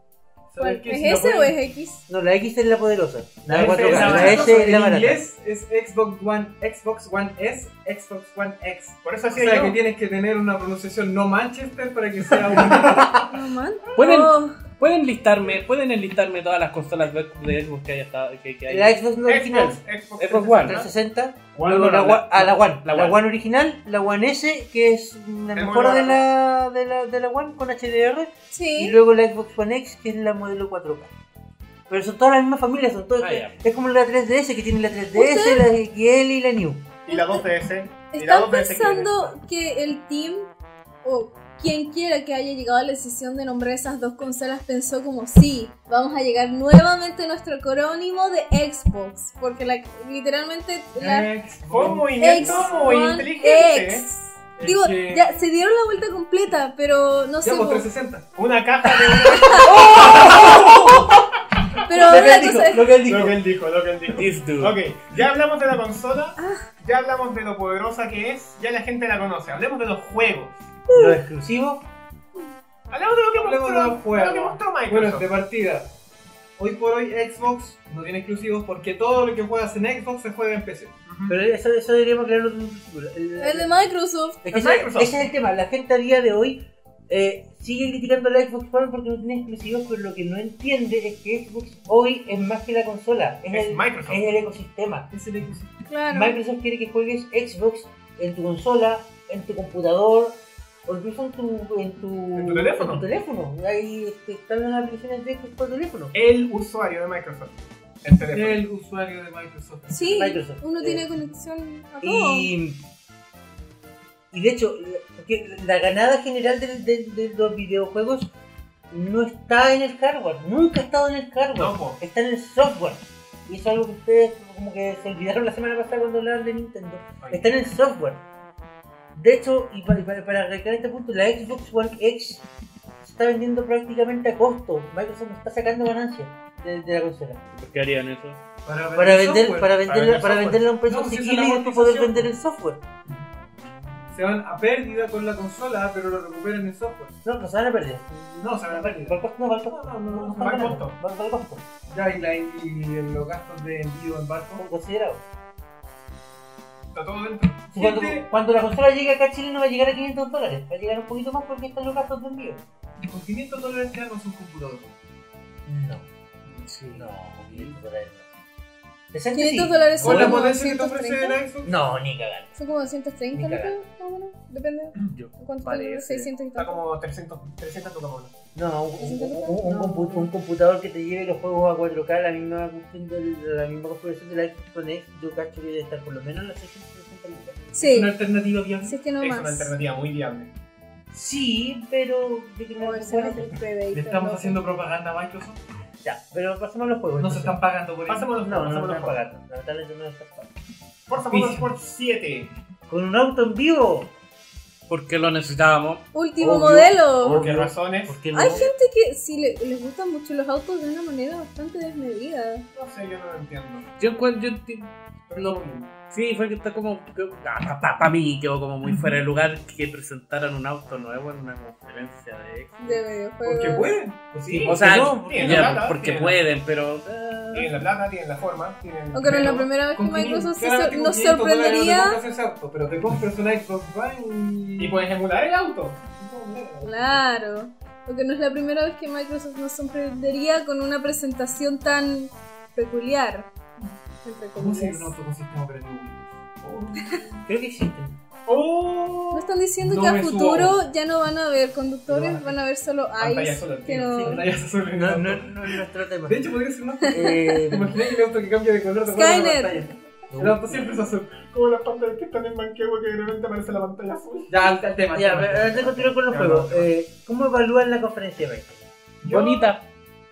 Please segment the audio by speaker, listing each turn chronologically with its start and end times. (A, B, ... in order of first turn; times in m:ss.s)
0:00.5-0:01.6 A
0:00.6-0:02.0 B
0:02.1-0:05.2 C
0:03.4-0:04.6 D
0:03.5-0:13.4 A
0:09.0-0:09.8 D
0:12.4-0:12.9 D
0:13.2-0:14.6 B
0:14.0-0:19.0 E
0:18.7-0:19.8 C
0:19.2-0:20.9 D
0:20.2-0:20.8 E
0:20.6-0:31.1 C
0:21.6-0:22.1 D
0:21.8-0:23.2 E
0:25.5-0:26.2 D
0:28.5-0:29.0 B
0:31.9-0:36.9 C
0:33.2-0:33.6 E
0:35.1-0:35.6 B
0:37.0-0:39.3 D
0:37.1-0:37.4 B
0:38.1-0:40.5 B
0:41.0-0:51.3 B
0:50.9-0:52.9 A
0:51.6-0:54.1 D
0:52.2-0:57.9 B
0:54.6-0:55.4 A
0:57.4-0:58.3 A
0:58.4-1:01.0 D
0:59.3-0:59.7 B
0:59.7-1:01.1 C
0:59.8-1:00.5 A
1:01.9-1:02.8 B
1:01.9-1:03.4 C
1:03.0-1:10.7 D
1:04.1-1:04.8 E
1:06.4-1:06.7 B
1:10.9-1:11.8 C
1:12.9-1:15.3 D
1:13.3-1:15.9 A
1:16.6-1:21.0 A
1:21.1-1:21.4 D
1:21.3-1:23.8 C
1:23.4-1:24.8 B
1:24.4-1:35.1 C
1:24.5-1:25.1 D
1:33.5-1:34.2 D
1:35.1-1:35.8 A
1:35.9-1:36.4 B
1:36.1-1:46.1 C
1:42.3-1:43.1 D
1:46.1-1:48.6 D
1:48.3-1:50.2 A
1:49.9-1:52.5 B
1:50.0-1:51.1 C
1:52.0-1:52.8 C
1:54.3-1:58.3 C
1:58.9-2:08.2 C
2:01.5-2:02.0 D
2:07.2-2:07.5 D
2:09.1-2:12.4 C
2:13.0-2:17.4 C
2:17.5-2:18.4 E
2:18.6-2:19.8 A
2:19.0-2:22.8 C
2:19.8-2:20.7 D
2:20.8-2:22.3 A
2:24.1-2:27.2 A
2:27.2-2:31.6 C
2:28.4-2:29.2 A
2:29.7-2:30.4 A
2:30.1-2:31.0 D
2:31.9-2:34.6 A
2:34.6-2:35.2 C
2:36.9-2:37.7 D
2:37.7-2:38.2 A
2:37.7-2:42.6 C
2:43.0-2:45.0 A
2:45.6-2:46.1 C
2:46.6-2:47.7 E
2:46.9-2:48.2 C
2:49.1-2:50.4 C
2:49.3-2:51.4 B
2:50.0-2:51.8 A
2:51.6-2:52.5 C
2:52.6-2:56.8 B
2:53.3-2:53.8 C
2:55.1-2:56.3 E
2:56.5-2:58.3 D
2:58.5-3:07.6 C
2:59.0-3:00.3 B
3:07.7-3:08.2 B
3:07.8-3:09.0 A
3:08.8-3:09.7 B
3:09.2-3:10.5 D
3:11.1-3:13.6 C
3:12.8-3:14.6 B
3:13.9-3:15.6 A
3:16.0-3:17.6 C
3:17.2-3:18.3 A
3:18.0-3:19.2 D
3:18.4-3:20.5 C
3:21.1-3:22.5 D
3:21.2-3:21.7 A
3:22.9-3:24.1 C
3:24.9-3:26.0 E
3:26.1-3:27.4 B
3:26.4-3:28.7 C
3:27.2-3:28.2 D
3:28.3-3:32.6 B
3:32.7-3:33.9 D
3:34.0-3:43.0 E
3:35.3-3:35.9 D
3:42.8-3:44.0 B
3:43.4-3:44.3 A
3:44.3-3:46.4 D
3:44.5-3:45.9 C
3:44.6-3:47.8 E
3:47.5-3:49.7 D
3:49.1-3:52.2 B
3:49.3-3:55.1 A
3:54.8-3:56.9 D
3:56.8-4:03.5 B
4:04.2-4:05.1 B
4:04.5-4:07.2 A
4:06.6-4:07.0 D
4:07.4-4:08.1 C
4:08.4-4:09.5 D
4:09.3-4:14.4 B
4:09.8-4:10.8 A
4:12.1-4:12.6 A
4:13.2-4:14.3 D
4:14.2-4:16.5 C
4:14.2-4:21.3 A
4:17.0-4:17.6 B
4:17.1-4:18.0 C
4:19.1-4:19.8 B
4:20.3-4:20.8 C
4:20.8-4:24.7 D
4:24.5-4:26.3 A
4:25.1-4:28.9 C
4:26.3-4:26.8 D
4:29.2-4:29.7 A
4:29.3-4:29.8 E